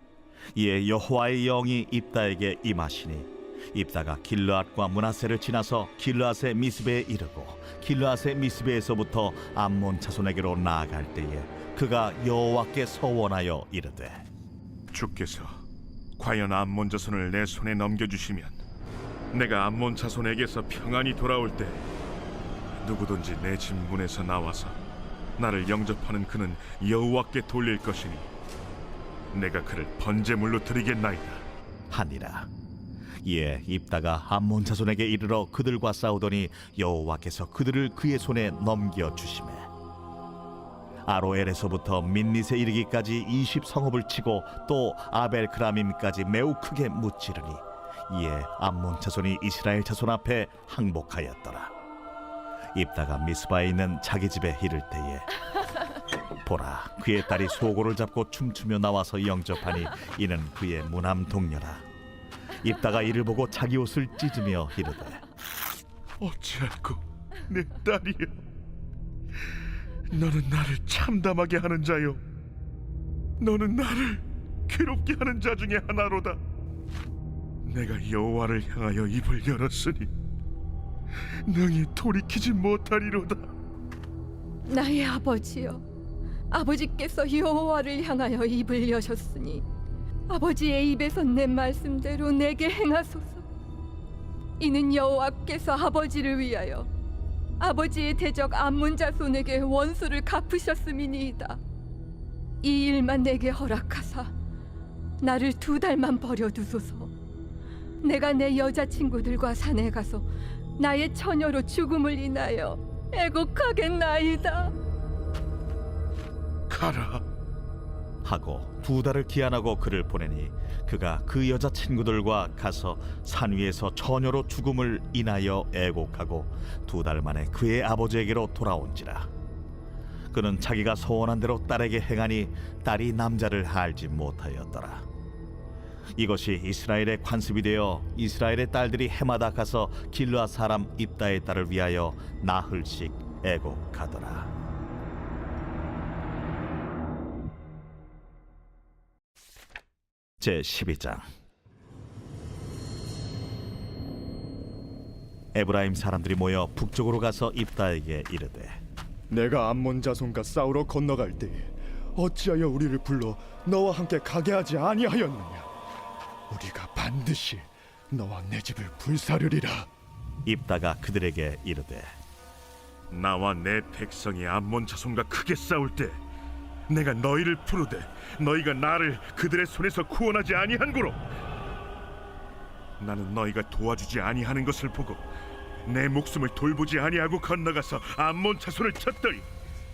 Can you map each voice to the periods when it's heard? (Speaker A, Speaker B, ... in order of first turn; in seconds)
Speaker A: 0.5-14.2, 31.9-32.5, 33.2-39.7, 41.0-51.7, 52.7-55.3, 56.4-61.8, 62.6-65.2, 118.2-129.3, 130.3-135.0, 136.2-144.5, 150.4-151.2, 155.5-158.8, 170.4-172.1
Speaker B: 14.9-15.6, 16.2-18.6, 19.3-21.9, 22.8-24.8, 25.4-28.3, 29.3-31.4, 66.2-68.3, 70.1-72.2, 73.4-76.4, 77.6-80.1, 81.4-83.5, 116.7-117.2, 173.1-176.2, 176.9-181.2, 183.0-185.2, 185.8-189.4
Speaker C: 84.7-85.8, 86.5-89.6, 90.3-93.4, 94.6-96.9, 97.6-101.6, 102.6-104.3, 105.2-107.1, 108.0-110.2, 110.8-114.7
Speaker D: 159.3-165.7, 166.5-169.9